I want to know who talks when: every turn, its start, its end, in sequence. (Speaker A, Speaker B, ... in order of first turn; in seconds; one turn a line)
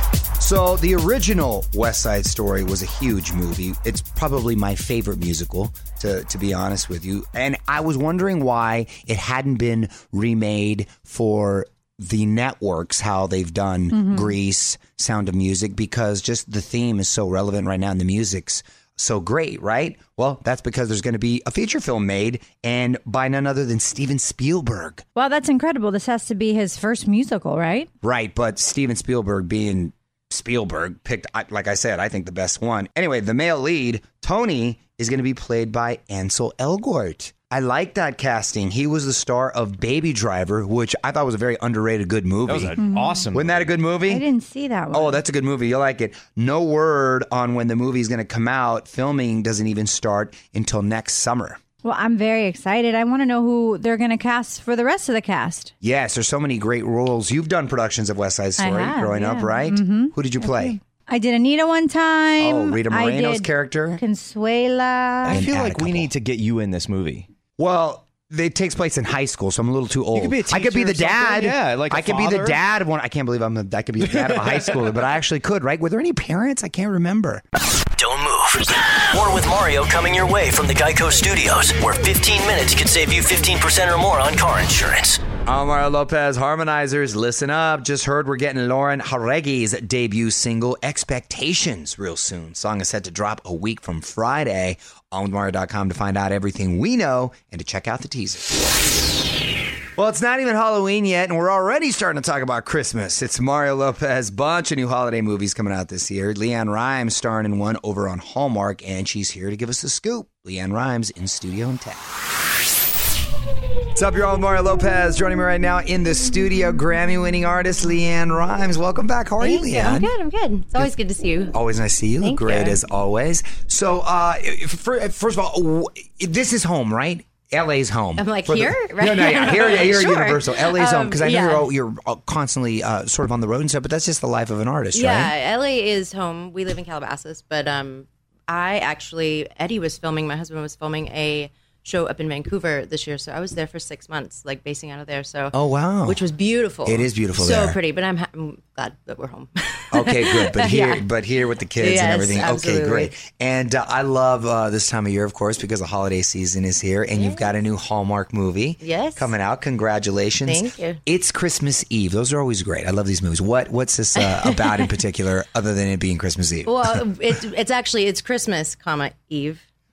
Speaker A: 0.4-25.0
Speaker B: 13.9-14.3
Speaker B: 25.1-27.9
Speaker A: 28.0-42.8
Speaker C: 42.5-43.6
Speaker B: 42.8-43.3
Speaker A: 43.3-44.2
Speaker B: 44.0-45.2
Speaker A: 44.9-51.6
Speaker B: 51.8-55.7
Speaker A: 55.8-60.7
Speaker B: 58.6-65.5
Speaker A: 62.4-64.0
Speaker C: 65.2-67.3
Speaker A: 65.3-66.1
Speaker A: 67.6-77.4
Speaker C: 70.2-72.6
Speaker D: 78.0-85.2
Speaker A: 85.5-98.5
Speaker A: 100.0-112.0
Speaker A: 114.0-120.1
Speaker E: 119.4-121.5
Speaker A: 121.5-135.3
Speaker E: 122.2-122.8
Speaker E: 128.2-131.7
Speaker E: 134.9-151.0
Speaker A: 145.5-146.2
Speaker A: 146.8-147.8
Speaker A: 149.9-167.0
Speaker E: 151.8-153.1
Speaker E: 157.2-157.6
Speaker E: 158.8-159.3
Speaker E: 160.4-161.0
Speaker E: 164.2-164.9
Speaker E: 166.7-169.6